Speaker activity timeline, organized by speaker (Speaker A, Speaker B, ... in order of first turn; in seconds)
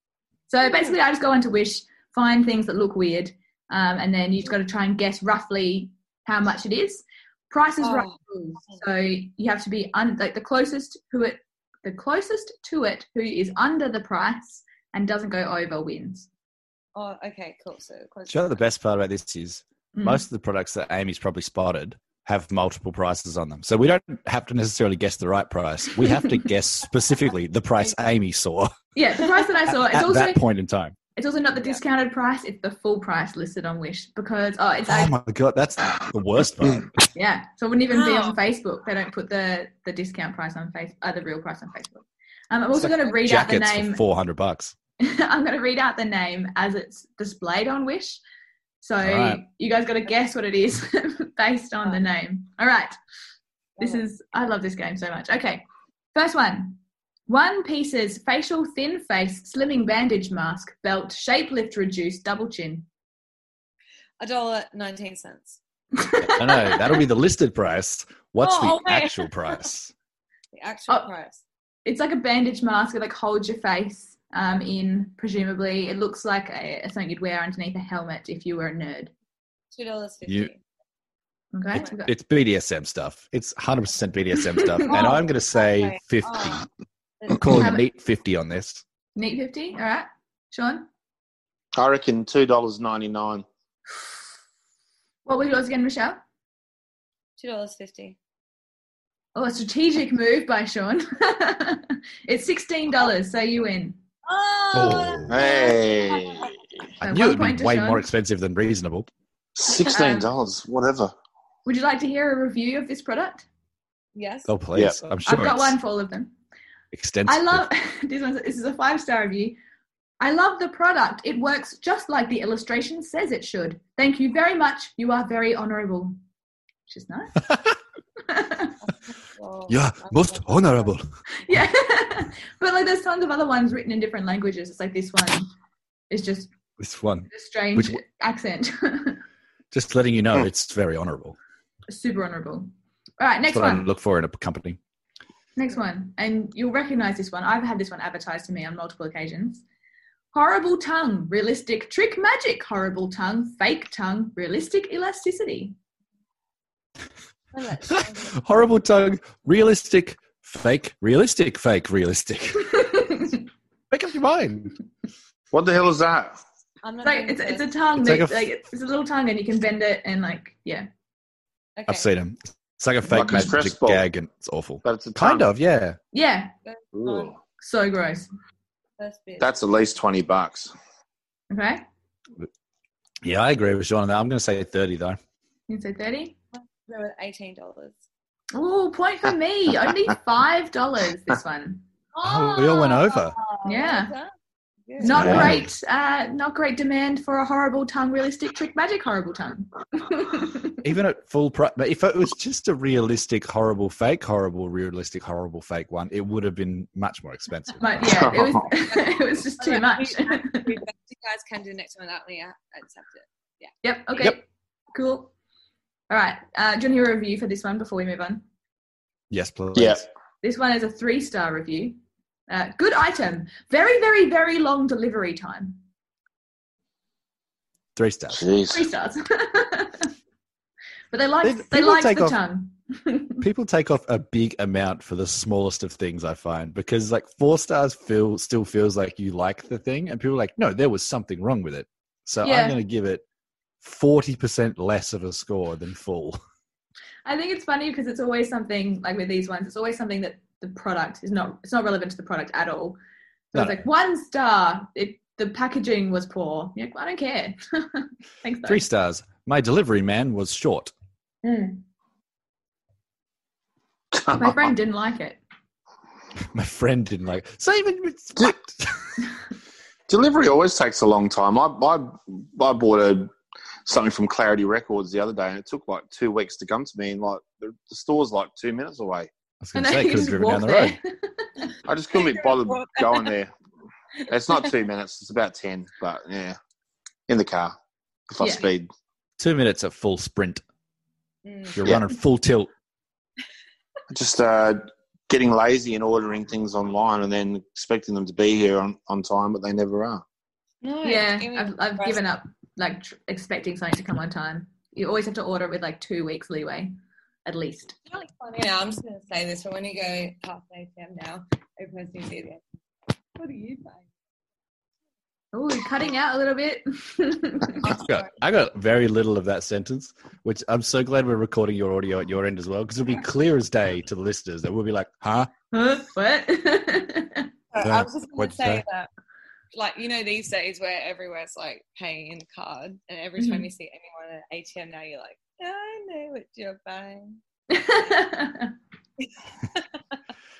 Speaker A: 0.5-16.3, 19.9-20.2, 28.9-30.4, 31.1-35.1, 37.1-44.0, 45.0-48.2, 48.8-53.0, 53.8-55.6, 56.1-62.9, 66.0-66.9, 71.8-79.1, 81.5-82.1, 84.5-85.2, 87.5-87.9, 89.2-90.9, 95.2-96.2, 99.3-104.0, 107.0-108.1, 109.9-110.3, 111.6-113.4, 115.2-116.3, 117.2-119.6, 120.2-126.2, 126.9-127.5, 128.3-128.8, 131.4-135.5, 136.1-136.5, 137.3-139.2, 141.9-143.8, 145.6-149.6, 150.3-155.7, 162.7-163.4, 167.0-170.9, 176.1-176.5, 177.6-178.3, 181.5-181.8, 185.7-186.4, 188.5-191.8, 193.6-194.1, 195.0-200.8, 207.8-210.8, 213.8-215.3, 216.1-218.4, 220.4-222.0, 222.5-225.8, 228.7-230.1, 231.1-233.4, 242.4-242.8, 247.2-253.0, 253.5-258.8, 261.4-261.8, 264.3-265.4, 279.7-281.7, 288.4-288.6, 301.0-306.9, 307.4-307.9, 315.5-318.0, 325.7-327.5, 333.4-333.7, 337.7-338.7
Speaker B: 7.8-8.2, 16.9-18.5, 37.9-38.4, 64.2-65.6, 68.4-69.7, 70.5-71.4, 79.7-80.6, 84.9-86.7, 97.4-98.2, 104.2-106.5, 114.1-114.5, 128.8-130.9, 157.5-158.6, 166.8-167.7, 171.8-172.1, 176.6-177.3, 179.0-179.5, 186.5-188.0, 192.1-194.3, 194.9-195.4, 208.7-213.7, 282.1-283.4, 291.4-291.8, 300.8-302.2, 308.1-312.6, 313.4-314.1, 317.8-318.2, 327.7-329.1, 329.7-337.4
Speaker C: 18.3-28.7, 29.7-30.9, 34.9-37.0, 42.7-44.7, 49.0-49.4, 66.2-69.9, 81.7-86.7, 87.3-88.8, 104.7-105.4, 107.0-109.1, 114.5-115.8, 116.9-117.7, 129.7-131.1, 136.8-138.0, 139.7-141.4, 143.5-144.8, 157.9-163.0, 163.9-164.7, 168.0-168.5, 171.9-176.0, 183.2-185.2, 192.2-193.4, 195.0-195.7, 200.8-208.2, 219.3-220.0, 227.9-228.4, 231.4-232.4, 233.4-243.2, 243.8-246.4, 253.5-253.8, 258.6-260.9, 266.5-269.1, 279.6-281.0, 289.4-290.6, 291.7-292.7, 317.9-325.5, 327.8-328.8
Speaker D: 91.7-93.4, 105.3-106.5, 109.6-111.1, 165.5-166.4, 173.1-174.0, 174.8-175.5, 176.9-177.4, 179.4-180.7, 195.1-195.6, 208.1-208.7, 219.7-220.0, 228.3-228.9, 264.1-264.7, 270.1-273.3, 273.9-279.3, 281.9-283.5, 284.3-286.6, 287.3-287.7, 288.3-288.9, 294.1-300.2